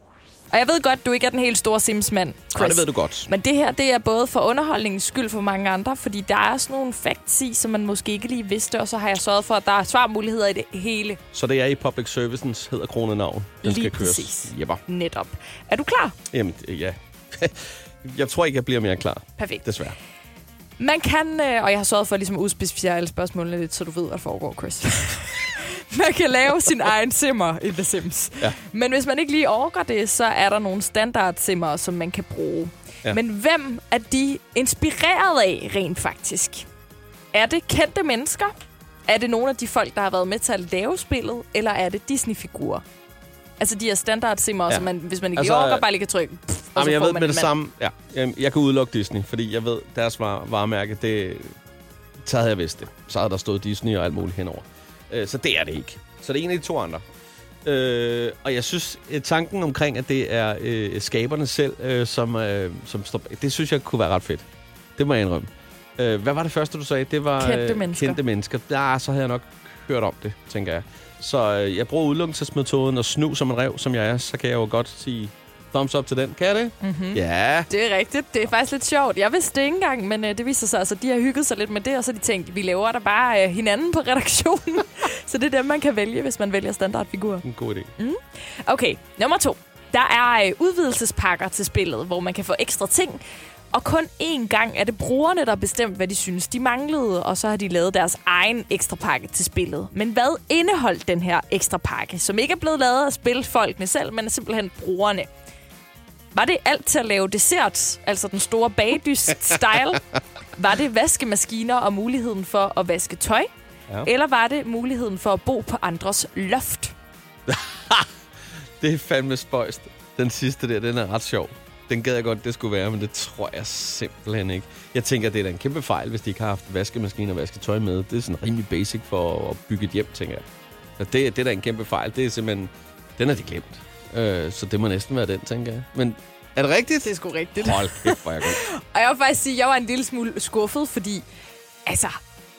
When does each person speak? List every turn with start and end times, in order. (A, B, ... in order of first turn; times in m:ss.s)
0:00.5-0:11.2 A
0:02.5-0:03.3 B
0:11.3-0:14.8 B
0:13.6-0:16.2 A
0:16.3-0:20.0 B
0:19.4-0:19.6 A
0:20.8-0:36.6 A
0:37.3-0:38.5 A
0:39.1-0:42.8 A
0:43.6-0:47.5 A
0:44.7-0:45.8 B
0:46.8-0:51.5 B
0:52.2-0:57.0 B
0:57.6-1:04.4 B
1:05.0-1:17.7 B
1:07.4-1:08.2 A
1:16.8-1:27.4 A
1:27.4-1:27.9 B
1:28.0-1:33.2 A
1:33.7-1:45.3 A
1:46.3-1:50.0 A
1:50.6-1:53.5 A
1:54.0-1:56.9 A
1:57.5-1:58.1 B
1:58.8-2:10.4 B
2:11.0-2:17.1 B
2:17.0-2:21.2 A
2:17.6-2:18.6 B
2:21.8-2:22.2 A